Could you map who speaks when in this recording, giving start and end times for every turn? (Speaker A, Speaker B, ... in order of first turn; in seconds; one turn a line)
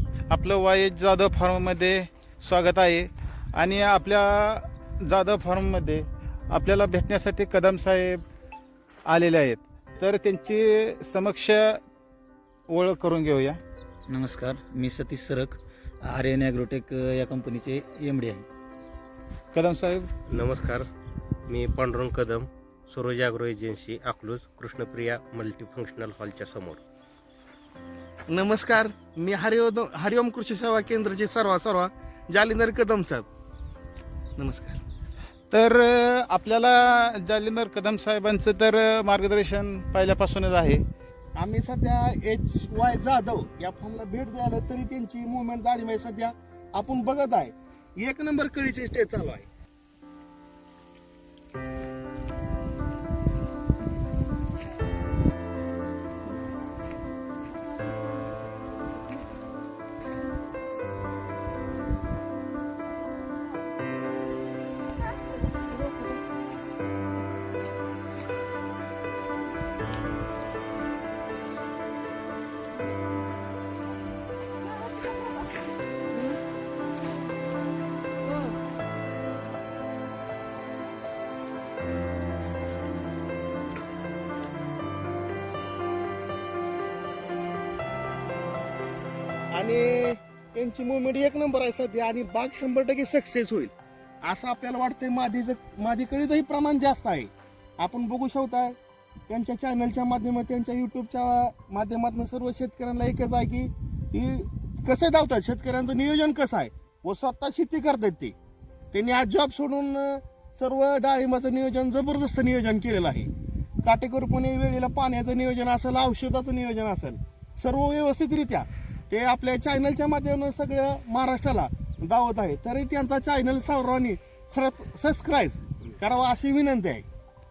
Speaker A: 0.3-8.2
Speaker A: 9.1-11.8
Speaker A: 12.7-13.6
Speaker B: 14.1-18.5
Speaker A: 19.5-20.1
Speaker C: 20.3-20.9
Speaker C: 21.5-26.8
Speaker D: 28.3-33.3
Speaker D: 34.4-34.8
Speaker A: 35.5-40.8
Speaker D: 41.4-49.5
Speaker D: 89.5-93.7
Speaker D: 94.2-98.8
Speaker D: 99.3-108.3
Speaker D: 108.9-113.3
Speaker D: 113.8-127.0